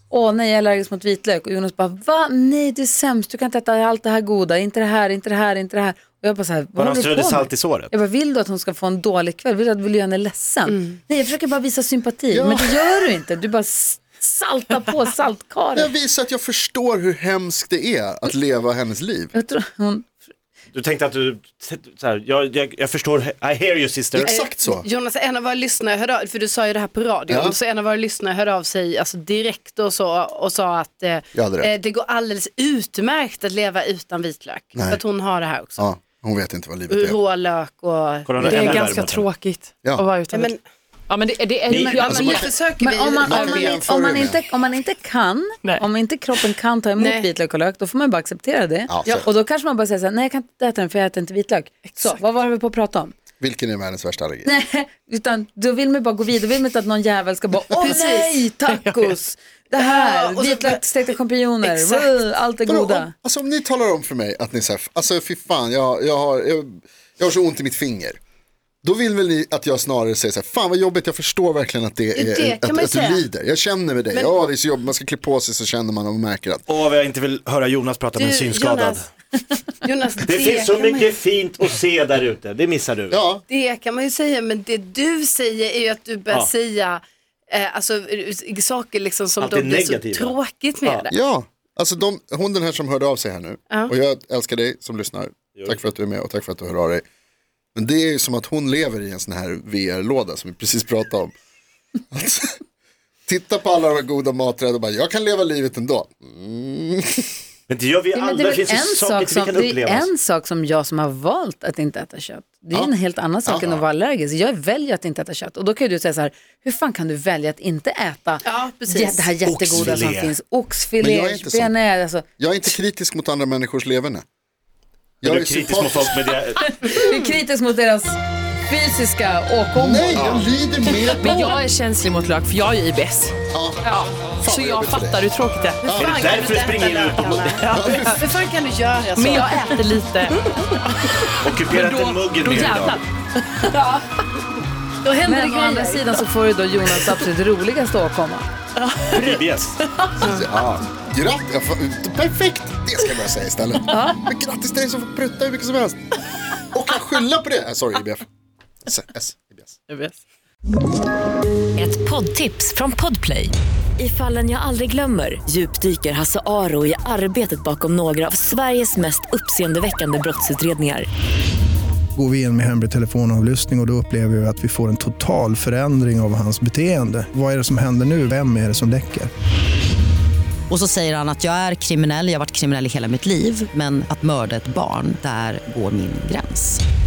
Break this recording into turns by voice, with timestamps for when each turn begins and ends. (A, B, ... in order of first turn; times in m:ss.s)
0:00.1-0:15.9 A
0:06.8-0:07.9 B
0:10.7-0:11.0 C
0:12.3-0:12.8 D
0:15.8-0:19.3 D
0:19.3-0:20.2 A
0:20.7-0:24.3 B
0:24.2-0:24.9 D
0:24.2-0:35.8 C
0:27.3-0:27.6 D
0:31.4-0:31.7 D
0:34.8-0:35.0 D
0:35.8-0:37.2 D
0:36.9-0:38.8 C
0:38.3-0:39.2 B
0:38.4-0:40.5 E
0:38.4-0:38.9 D
0:40.3-0:40.6 C
0:41.1-0:42.3 E
0:41.7-0:42.4 B
0:41.7-0:53.1 A
0:41.9-0:43.8 C
0:42.0-0:42.5 D
0:43.2-0:44.4 D
0:47.0-0:47.3 C
0:48.9-0:49.3 D
0:51.9-0:52.2 E
0:53.4-0:54.5 D
0:54.4-1:03.1 A
0:57.8-0:58.5 C
0:58.7-0:59.2 E
0:59.8-1:00.8 C
1:01.6-1:02.1 C
1:02.7-1:08.2 D
1:08.8-1:16.6 D
1:12.2-1:13.2 C
1:16.7-1:19.1 B
1:18.2-1:19.1 C
1:19.8-1:21.2 C
1:20.2-1:23.2 B
1:23.1-1:23.4 D
1:23.5-1:31.1 C
1:29.4-1:31.1 B
1:31.1-1:37.0 D
1:37.8-1:41.3 D
1:42.1-1:42.6 D
1:43.3-1:47.3 D
1:47.7-1:50.1 B
1:48.1-2:02.3 A
1:52.7-1:53.8 D
1:58.4-1:59.3 C
1:59.4-2:00.4 B
2:01.0-2:01.8 D
2:02.4-2:04.2 D
2:05.2-2:06.2 D
2:05.2-2:06.9 B
2:06.6-2:10.4 A
2:09.7-2:11.6 D
2:10.9-2:15.9 E
2:13.5-2:13.9 D
2:14.4-2:15.2 D
2:15.8-2:16.2 D
2:15.9-2:19.7 C
2:15.9-2:17.6 B
2:17.5-2:18.2 E
2:17.7-2:18.3 D
2:19.2-2:23.9 E
2:21.4-2:23.0 B
2:25.0-2:26.2 C
2:25.2-2:28.5 A
2:27.0-2:27.2 E
2:28.8-2:30.2 E
2:29.1-2:29.8 B
2:30.2-2:36.0 D
2:33.9-2:34.2 A
2:36.6-2:38.3 D
2:38.8-2:39.7 D
2:39.9-2:40.2 E
2:41.8-2:51.1 F
2:52.2-2:59.3 G
3:00.7-3:06.8 H